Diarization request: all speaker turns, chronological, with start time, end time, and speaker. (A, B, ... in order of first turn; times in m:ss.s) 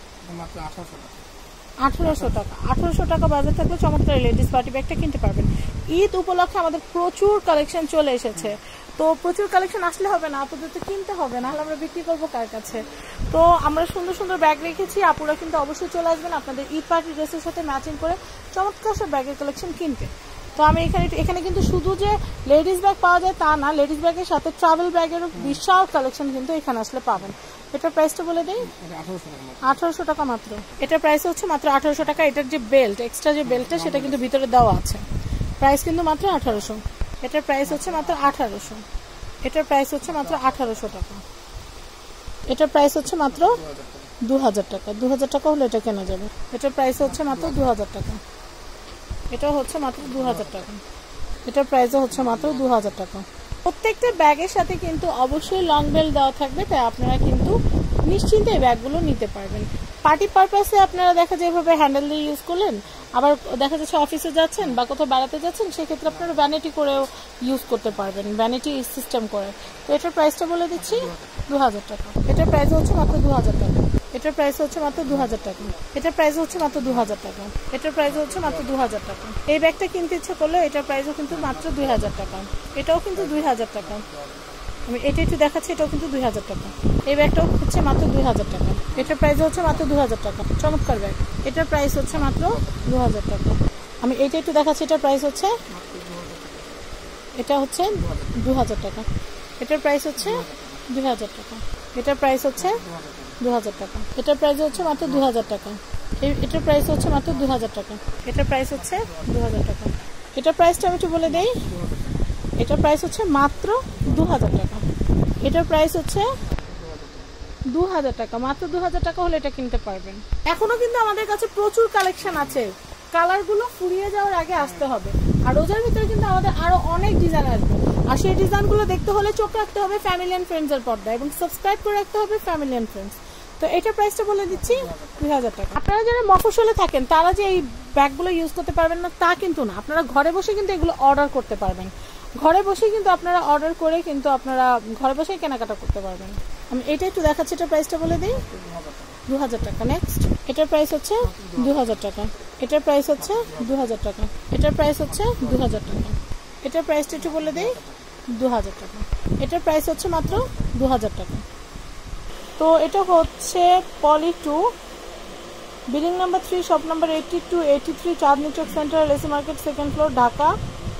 0:00.3-0:01.2 A
0:01.8-0:28.7 B
0:02.0-0:02.4 A
0:25.3-0:25.6 A
0:28.6-0:29.8 A
0:29.6-0:35.1 B
0:33.4-0:34.4 A
0:35.6-0:38.8 B
0:36.3-0:36.7 A
0:37.6-0:38.7 A
0:39.4-0:41.2 B
0:40.1-0:41.0 A
0:42.5-0:43.6 B
0:43.2-0:44.1 A
0:44.2-0:48.2 B
0:47.0-0:47.7 A
0:49.3-0:50.8 B
0:50.0-0:50.7 A
0:51.5-0:57.6 B
0:52.1-0:53.0 A
0:58.1-1:24.0 B
1:06.1-1:06.5 A
1:10.8-1:11.5 A
1:15.0-1:15.8 A
1:16.5-1:17.2 A
1:18.1-1:18.9 A
1:21.3-1:22.6 A
1:23.2-1:24.7 A
1:24.9-1:35.6 B
1:28.9-1:30.0 A
1:32.1-1:32.8 A
1:35.7-1:36.8 A
1:37.4-1:39.0 B
1:37.9-1:38.4 A
1:39.6-1:42.8 B
1:40.2-1:40.8 A
1:42.6-1:43.4 A
1:43.4-1:51.6 B
1:44.7-1:45.3 A
1:47.1-1:49.7 A
1:51.3-1:52.3 A
1:52.6-1:54.8 B
1:54.0-1:54.4 A
1:55.4-1:56.3 B
1:56.4-1:57.3 A
1:57.7-2:28.4 B
2:02.2-2:02.6 A
2:04.6-2:04.9 A
2:14.5-2:15.3 A
2:28.3-2:29.2 A
2:29.3-2:37.8 B
2:31.2-2:32.1 A
2:33.2-2:33.9 A
2:35.1-2:36.0 A
2:37.2-2:38.1 A
2:38.4-2:41.4 B
2:40.3-2:40.8 A
2:42.6-2:44.6 B
2:45.9-2:50.6 B